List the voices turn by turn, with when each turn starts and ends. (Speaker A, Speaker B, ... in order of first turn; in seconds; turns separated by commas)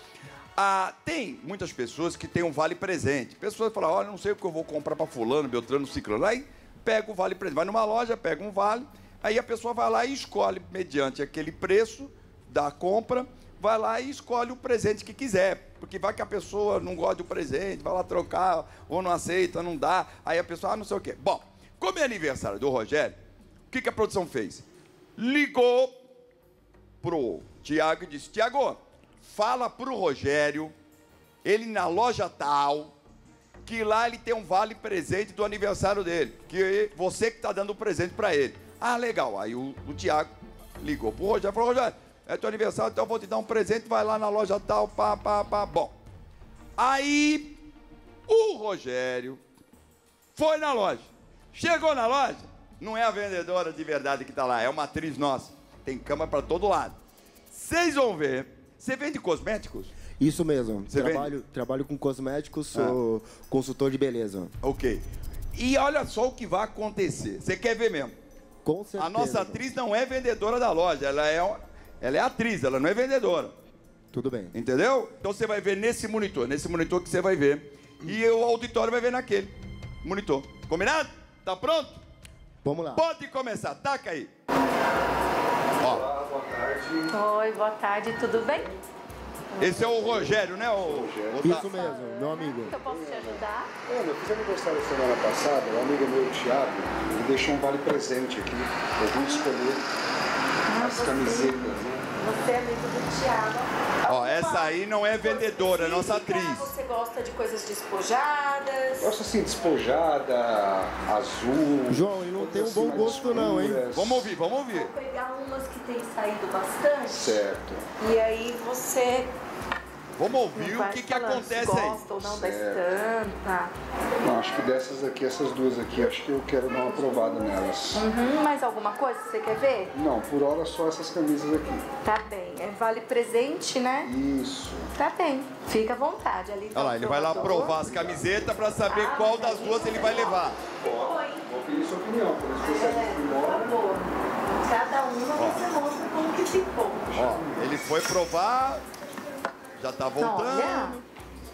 Speaker A: 0.6-23.1, Speaker A: 23.7-24.6, Speaker A: 25.1-25.9, Speaker A: 27.0-30.7, Speaker A: 31.4-32.9, Speaker A: 33.6-45.9, Speaker A: 46.8-47.6, Speaker A: 48.3-49.4, Speaker A: 50.4-57.0, Speaker A: 57.5-59.9, Speaker B: 60.2-64.5, Speaker A: 60.9-61.3, Speaker A: 62.7-63.0, Speaker A: 64.6-65.0, Speaker A: 65.5-68.1, Speaker B: 68.6-69.6, Speaker A: 69.0-73.5, Speaker B: 74.1-74.5, Speaker A: 74.5-82.0, Speaker B: 82.6-83.0, Speaker A: 82.9-84.3, Speaker A: 85.8-86.0, Speaker C: 85.8-87.2, Speaker D: 87.1-88.7, Speaker C: 88.3-88.8, Speaker D: 89.5-89.9, Speaker A: 89.6-91.7, Speaker C: 89.6-91.6, Speaker B: 91.4-92.8, Speaker D: 91.5-93.7, Speaker C: 92.6-99.8, Speaker D: 99.1-99.5, Speaker D: 100.7-109.1, Speaker C: 100.7-102.0, Speaker A: 104.0-106.7, Speaker C: 108.9-114.3, Speaker B: 111.9-113.8, Speaker A: 113.9-114.9, Speaker D: 114.7-117.4, Speaker C: 117.1-117.9, Speaker D: 118.0-119.3, Speaker A: 120.2-122.0, Speaker D: 120.5-123.7, Speaker C: 122.2-122.8, Speaker C: 124.2-128.1, Speaker D: 126.9-129.9, Speaker C: 129.9-131.9, Speaker D: 132.0-134.1, Speaker C: 134.0-134.9, Speaker D: 134.9-137.8, Speaker A: 136.7-140.6, Speaker C: 137.3-138.7, Speaker D: 138.8-141.4, Speaker C: 140.8-143.8, Speaker D: 142.5-147.1, Speaker A: 145.3-145.6, Speaker C: 147.1-147.8, Speaker A: 147.1-148.8, Speaker A: 149.8-151.0, Speaker D: 150.2-151.0